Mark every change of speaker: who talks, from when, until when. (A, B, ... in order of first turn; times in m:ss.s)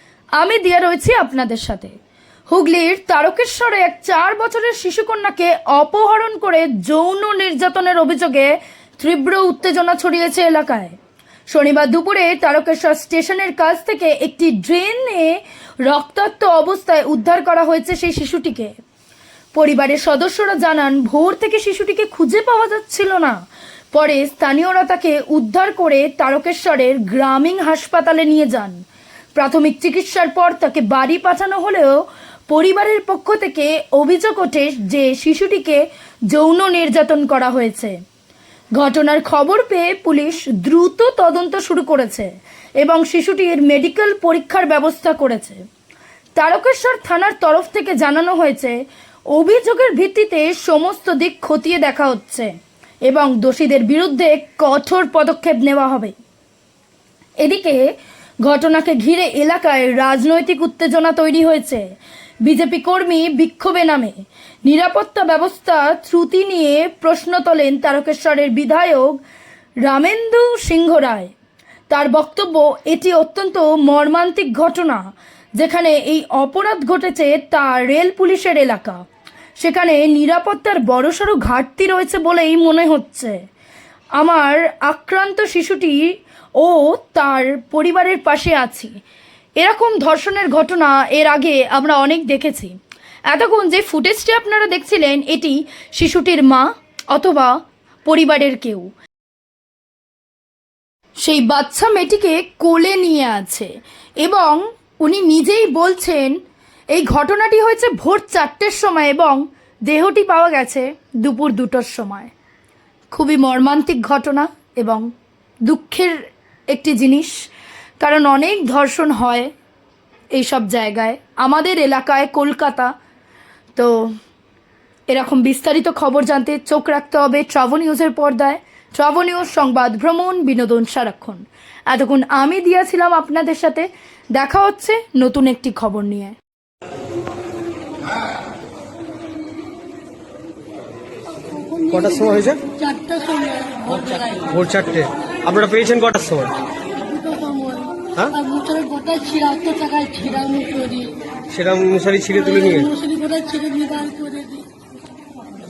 0:00.4-0:01.9 A
0:02.5-0:11.0 A
0:11.5-0:18.7 A
0:19.5-0:23.4 A
0:23.9-0:28.8 A
0:29.4-0:38.0 A
0:38.8-0:45.6 A
0:46.4-0:52.5 A
0:53.1-0:56.2 A
0:57.4-1:01.9 A
1:02.4-1:09.2 A
1:09.8-1:11.3 A
1:11.9-1:15.0 A
1:15.6-1:19.0 A
1:19.6-1:23.4 A
1:24.2-1:29.0 A
1:29.6-1:32.7 A
1:33.3-1:38.9 A
1:41.2-1:46.4 A
1:46.9-1:52.3 A
1:53.1-1:55.1 A
1:55.6-1:57.4 A
1:58.0-1:59.5 A
2:00.3-2:02.9 A
2:03.8-2:04.1 A
2:05.1-2:16.4 A
2:21.9-2:22.7 B
2:22.7-2:24.3 C
2:24.3-2:26.6 B
2:27.0-2:31.2 C
2:28.1-2:28.4 B
2:31.5-2:33.0 B
2:33.0-2:34.6 C